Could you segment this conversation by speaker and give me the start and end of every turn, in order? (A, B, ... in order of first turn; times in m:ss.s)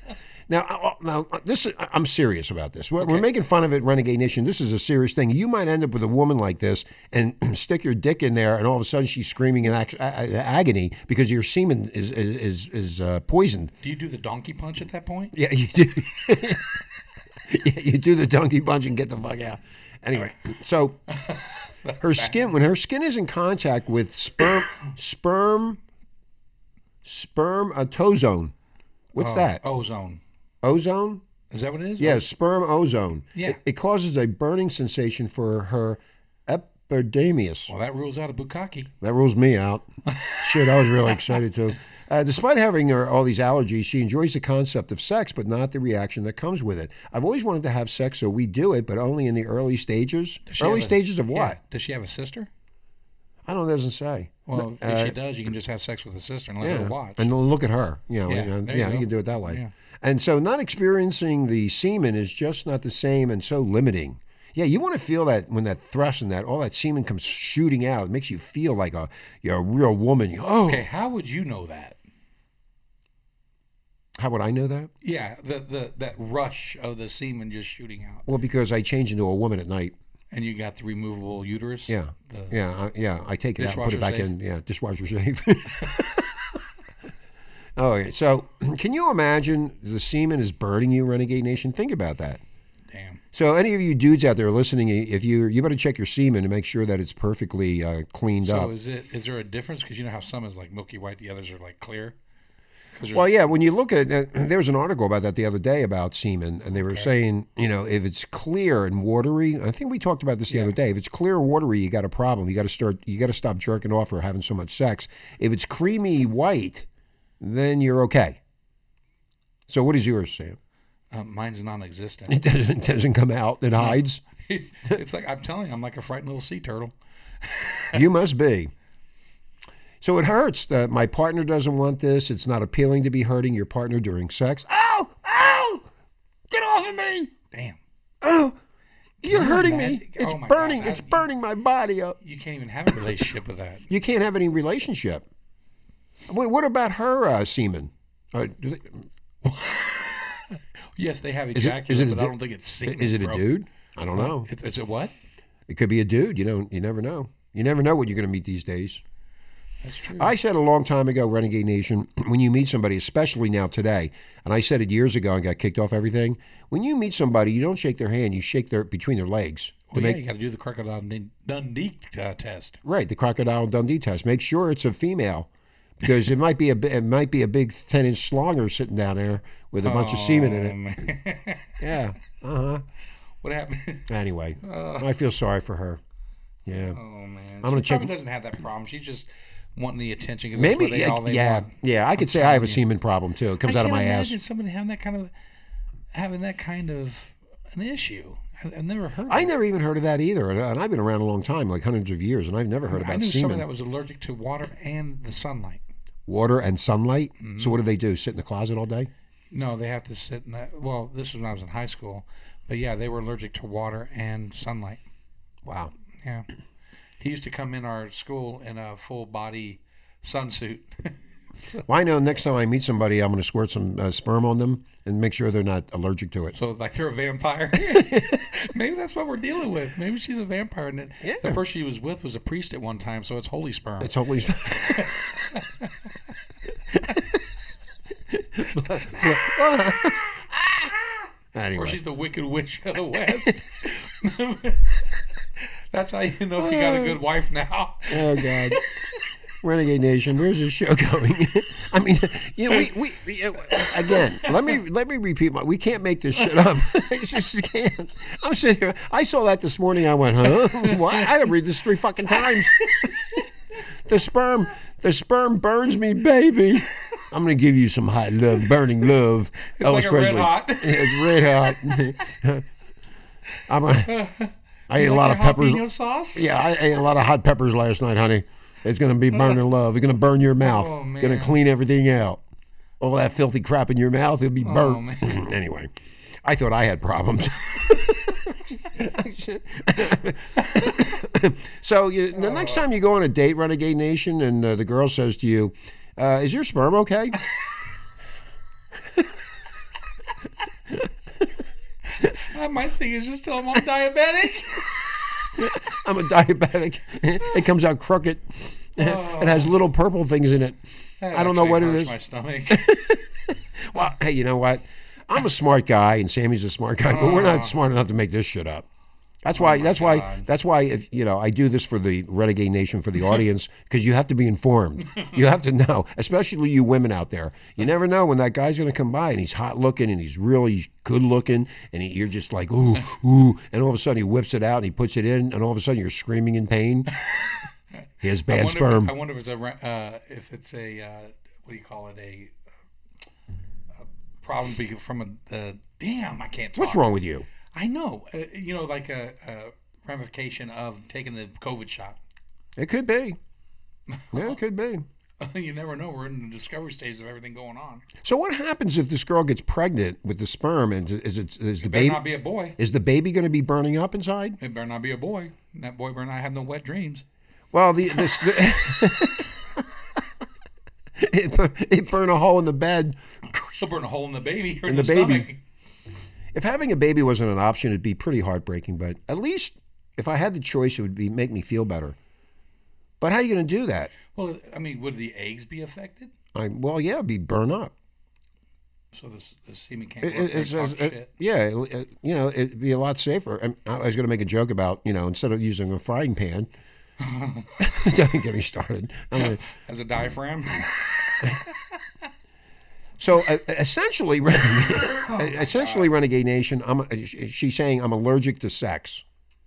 0:00.5-0:13.7 A
0:03.0-0:03.3 B
0:13.8-0:15.3 B
0:15.3-0:16.7 A
0:17.5-0:21.0 A
0:21.1-0:22.5 B
0:22.0-0:25.8 A
0:27.0-0:28.5 A
0:29.1-0:29.6 A
0:29.2-0:30.2 B
0:30.6-0:31.2 A
0:31.5-0:32.2 B
0:32.0-0:37.7 A
0:37.7-0:38.9 B
0:39.0-0:51.6 A
0:50.4-0:52.5 B
0:53.4-0:55.2 A
0:54.4-0:57.3 B
0:56.6-1:10.9 A
0:58.2-0:59.7 B
1:10.6-1:12.0 B
1:14.2-1:14.9 A
1:15.0-1:18.2 B
1:18.3-1:19.9 A
1:20.3-1:22.6 B
1:21.9-1:26.4 A
1:23.6-1:24.3 B
1:27.8-1:32.4 A
1:32.9-1:33.2 B
1:33.3-1:38.7 A
1:38.4-1:42.2 B
1:42.9-1:43.5 B
1:43.1-1:56.8 A
1:46.7-1:47.1 B
1:50.5-1:50.8 B
1:57.4-1:58.4 A
1:59.7-2:00.6 A
2:01.1-2:02.4 B
2:02.3-2:04.2 A
2:03.8-2:08.0 B
2:07.9-2:08.7 A
2:10.0-2:15.8 A
2:16.5-2:17.3 A
2:17.5-2:17.8 B
2:18.2-2:18.6 A
2:19.2-2:22.2 A
2:19.2-2:21.2 B
2:22.2-2:23.9 B
2:23.9-2:25.2 A
2:26.3-2:29.1 A
2:29.4-2:33.5 B
2:31.5-2:34.5 A
2:34.1-2:35.1 B
2:35.7-2:39.0 A
2:39.8-2:40.3 B
2:40.2-2:50.2 A
2:49.9-2:52.8 B
2:52.8-2:55.5 A
2:56.0-3:00.8 A
2:59.8-3:01.8 B
3:01.8-3:02.8 A
3:03.4-3:04.1 B
3:04.1-3:06.0 A
3:04.6-3:05.1 B
3:06.6-3:07.0 A
3:06.8-3:12.8 B
3:07.6-3:08.1 A
3:10.5-3:14.4 A
3:13.6-3:15.3 B
3:16.1-3:19.5 B
3:19.3-3:23.7 A
3:22.9-3:25.8 B
3:26.3-3:29.1 A
3:27.4-3:27.8 B
3:29.5-3:35.0 B
3:35.6-3:35.9 A
3:36.2-3:36.5 B
3:37.2-3:41.8 B
3:41.9-3:46.5 A
3:46.5-3:54.1 B
3:47.8-3:48.4 A
3:51.2-3:51.6 A
3:54.0-3:55.1 A
3:54.6-3:55.9 B
3:58.3-4:00.6 A
4:01.5-4:02.0 A
4:01.7-4:08.9 B
4:06.6-4:07.2 A
4:08.1-4:08.8 A
4:09.6-4:23.4 A
4:13.7-4:14.2 B
4:20.6-4:21.3 B
4:22.4-4:23.1 B
4:24.0-4:32.6 A
4:29.7-4:32.0 B
4:33.7-4:34.2 A
4:34.0-4:36.5 B
4:34.9-4:42.4 A
4:40.6-4:41.6 B
4:43.0-4:57.4 A
4:44.6-4:45.4 B
4:52.3-4:52.8 B
5:02.1-5:05.2 B
5:05.6-5:10.8 A
5:09.0-5:09.7 B
5:11.2-5:13.2 B
5:11.3-5:12.2 A
5:12.7-5:18.9 A
5:17.0-5:17.7 B
5:19.4-5:37.1 A
5:19.5-5:20.5 B
5:37.2-5:37.6 B
5:38.2-5:39.1 A
5:38.5-5:42.5 B
5:43.9-5:47.1 B
5:46.8-5:47.5 A
5:47.7-5:52.2 B
5:52.8-5:53.4 A
5:54.1-5:54.6 B
5:54.3-5:55.0 A
5:55.4-5:58.0 B
5:58.2-6:04.6 A
6:01.8-6:02.8 B
6:04.6-6:07.2 B
6:07.7-6:09.8 A
6:11.2-6:13.6 A
6:13.7-6:15.6 B
6:14.8-6:15.5 A
6:16.5-6:22.2 A
6:23.2-6:24.1 A
6:24.2-6:26.3 B
6:26.5-6:27.9 A
6:29.1-6:31.3 B
6:30.2-6:36.7 A
6:37.2-6:37.9 B
6:37.8-6:39.6 A
6:39.3-6:41.8 B
6:43.2-6:49.2 A
6:45.2-6:46.1 B